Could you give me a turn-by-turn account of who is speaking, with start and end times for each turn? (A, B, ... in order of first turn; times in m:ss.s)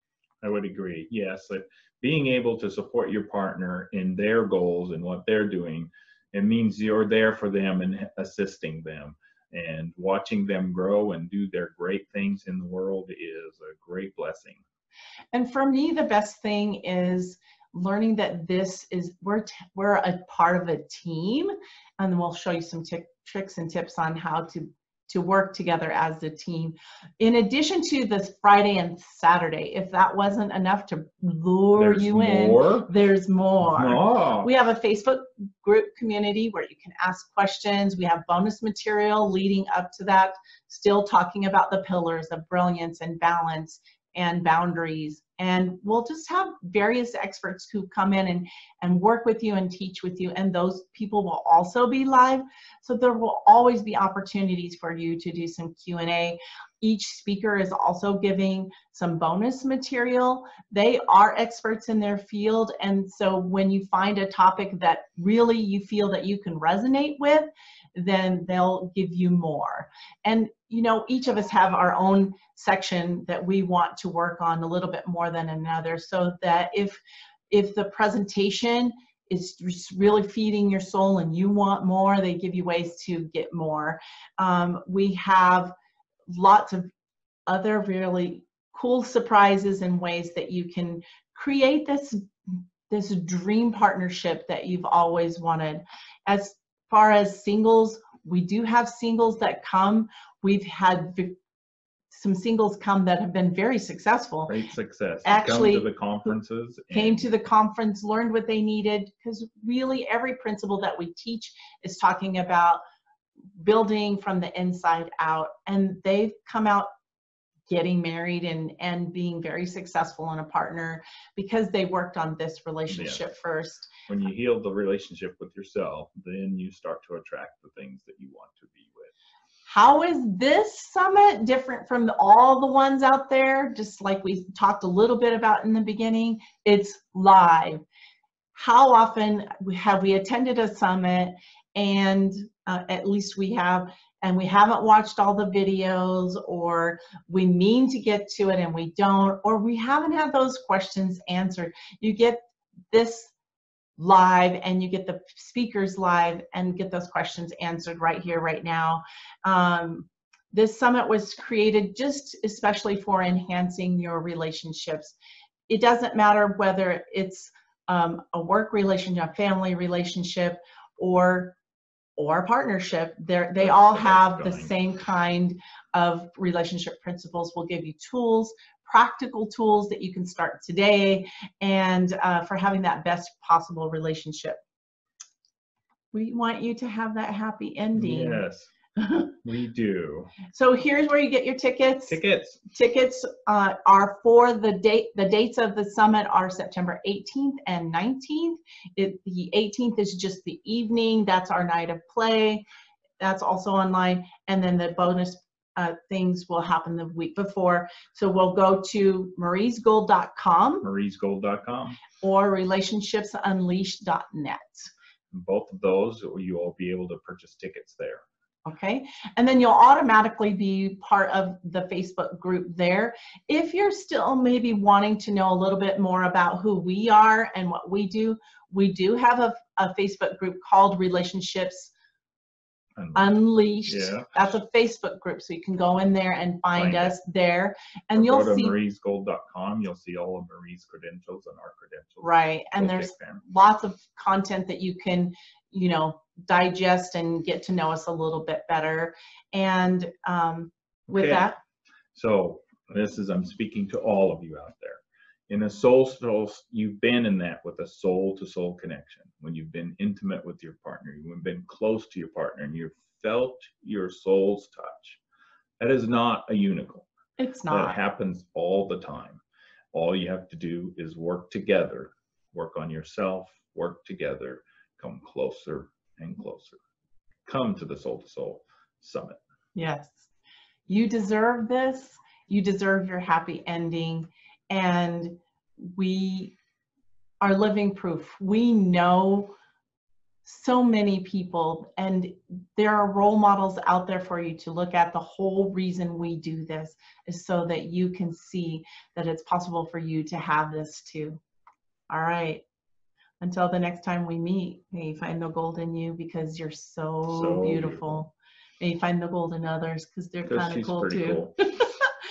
0:00.4-0:14.6 A
0:15.3-1:17.0 B
0:31.8-0:32.9 A
0:33.6-0:34.5 A
1:17.5-1:25.7 B
1:26.3-1:26.9 B
1:27.5-1:41.3 B
1:42.1-1:44.6 B
1:44.5-1:47.3 A
1:45.2-1:45.9 B
1:46.9-1:52.8 B
1:53.6-1:56.9 B
1:57.7-2:03.9 B
2:02.9-2:03.2 A
2:04.1-2:09.1 A
2:09.7-2:17.8 B
2:18.5-2:32.4 B
2:32.9-2:33.3 B
2:34.0-2:45.2 B
2:45.7-2:51.6 B
2:52.2-3:04.6 B
2:53.6-2:54.8 A
3:06.1-3:08.4 B
3:07.9-3:08.7 A
3:09.0-3:09.3 B
3:09.4-3:10.3 A
3:10.5-3:12.2 B
3:12.1-3:12.6 A
3:12.7-3:22.6 B
3:23.2-3:30.9 B
3:30.8-3:32.0 A
3:32.2-3:34.9 B
3:35.3-3:38.2 A
3:38.6-3:51.9 B
3:53.0-3:53.3 A
3:53.1-3:58.8 B
3:53.8-3:54.5 A
3:56.7-3:57.1 A
3:58.2-4:03.4 A
4:02.2-4:11.6 B
4:11.1-4:11.5 A
4:12.1-4:25.2 A
4:25.8-4:27.1 A
4:27.4-4:28.0 B
4:27.7-4:29.4 A
4:29.9-4:36.8 A
4:37.4-4:39.4 A
4:39.7-4:40.3 B
4:40.9-4:46.6 B
4:47.4-4:49.5 B
4:50.4-5:01.4 B
5:02.1-5:02.6 B
5:03.4-5:12.1 B
5:07.3-5:08.2 A
5:10.4-5:11.6 A